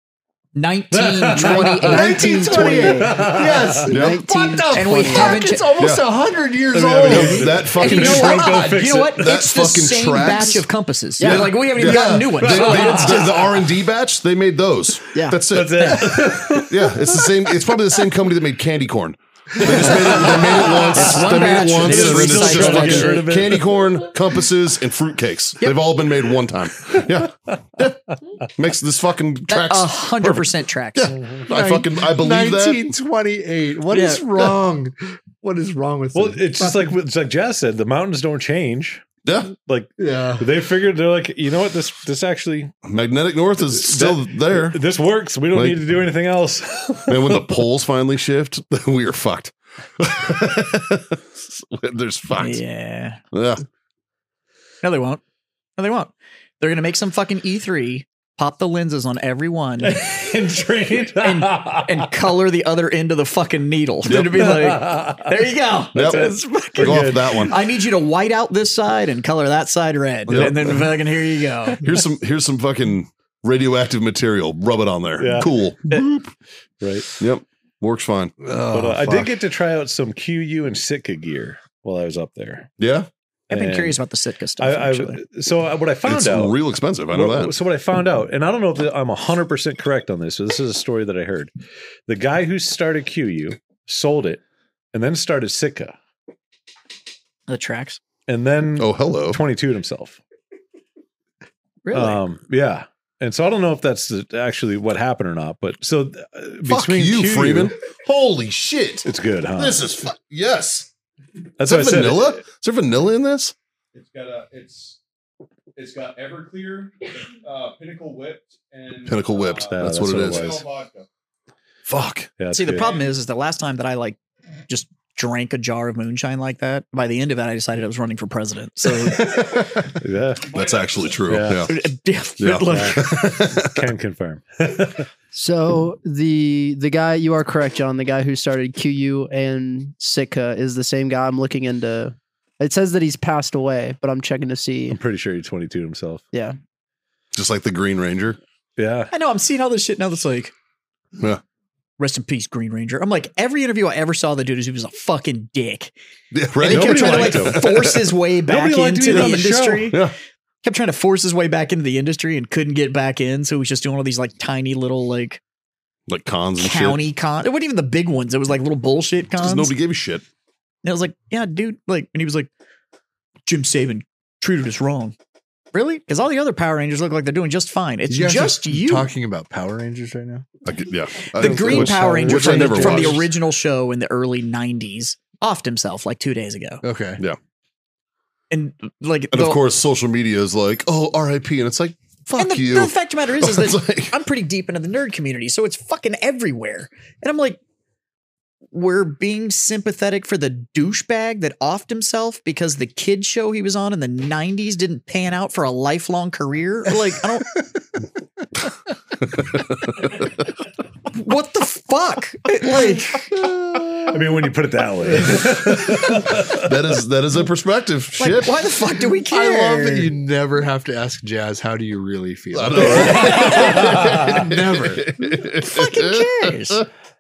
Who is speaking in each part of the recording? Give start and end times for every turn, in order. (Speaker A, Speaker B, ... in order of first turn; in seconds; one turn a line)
Speaker A: 0.6-2.2
Speaker B: 1.0-1.6
Speaker C: 1.4-5.6
Speaker D: 1.8-8.9
Speaker B: 2.8-3.9
Speaker E: 3.9-4.2
Speaker A: 4.7-5.7
Speaker E: 5.8-6.0
Speaker B: 6.7-9.2
Speaker E: 7.0-8.5
Speaker A: 7.8-13.5
Speaker E: 9.1-10.7
Speaker E: 11.2-32.9
Speaker C: 11.2-11.5
Speaker D: 11.8-12.3
Speaker B: 12.4-13.3
Speaker C: 15.1-15.4
Speaker B: 15.5-17.3
Speaker B: 19.6-23.9
Speaker A: 20.6-23.2
Speaker A: 29.5-31.1
Speaker D: 31.5-36.9
Speaker A: 33.9-34.2
Speaker B: 36.1-42.7
Speaker E: 39.2-39.5
Speaker D: 40.0-40.5
Speaker E: 42.9-44.8
Speaker B: 43.8-47.6
Speaker E: 47.1-52.6
Speaker A: 52.4-53.2
Speaker E: 53.3-53.6
Speaker A: 54.8-55.2
Speaker A: 55.8-60.0
Speaker B: 59.8-62.1
Speaker A: 61.2-71.9
Speaker E: 64.1-64.4
Speaker B: 64.2-65.3
Speaker B: 65.9-67.5
Speaker E: 66.0-67.6
Speaker E: 70.3-70.9
Speaker E: 71.8-76.3
Speaker B: 75.2-75.5
Speaker B: 76.8-77.1
Speaker E: 77.2-78.4
Speaker D: 78.4-79.3
Speaker B: 78.7-82.7
Speaker E: 82.8-83.1
Speaker A: 83.5-85.2
Speaker B: 83.5-84.0
Speaker B: 84.6-86.6
Speaker E: 86.1-87.5
Speaker B: 87.1-91.5
Speaker B: 92.1-94.4
Speaker B: 94.9-96.0
Speaker A: 97.5-98.0
Speaker B: 98.3-100.2
Speaker E: 98.8-99.4
Speaker A: 101.8-102.2
Speaker B: 101.9-107.8
Speaker E: 106.7-110.9
Speaker B: 109.0-109.8
Speaker B: 111.6-112.4
Speaker E: 111.6-113.5
Speaker F: 113.9-115.0
Speaker F: 115.8-121.1
Speaker E: 119.1-120.6
Speaker B: 119.7-120.6
Speaker E: 121.9-122.3
Speaker B: 122.4-123.0
Speaker A: 122.5-129.5
Speaker E: 129.1-129.9
Speaker B: 129.9-130.5
Speaker F: 130.4-131.4
Speaker E: 130.5-131.7
Speaker B: 131.3-131.7
Speaker A: 131.6-133.1
Speaker E: 132.4-133.8
Speaker B: 132.7-135.1
Speaker C: 135.3-145.0
Speaker B: 144.9-146.2
Speaker E: 147.3-148.4
Speaker B: 148.8-149.1
Speaker A: 149.1-150.5
Speaker A: 152.0-155.9
Speaker E: 156.3-158.1
Speaker A: 156.6-160.0
Speaker B: 156.6-157.9
Speaker B: 158.5-160.0
Speaker E: 159.1-159.4
Speaker A: 160.6-165.4
Speaker E: 166.1-167.0
Speaker A: 166.6-169.7
Speaker E: 169.4-170.2
Speaker A: 170.8-172.5
Speaker A: 173.5-175.2
Speaker A: 175.7-179.1
Speaker D: 178.1-180.5
Speaker E: 180.7-183.3
Speaker A: 181.3-186.8
Speaker B: 181.4-183.2
Speaker D: 186.8-187.2
Speaker A: 188.5-189.6
Speaker E: 189.3-194.1
Speaker A: 192.4-197.6
Speaker A: 198.7-207.6
Speaker E: 209.3-210.3
Speaker A: 211.1-213.3
Speaker B: 214.0-216.7
Speaker E: 216.0-218.7
Speaker A: 218.2-220.1
Speaker D: 219.2-225.2
Speaker E: 222.5-226.8
Speaker A: 222.9-223.8
Speaker A: 225.6-226.8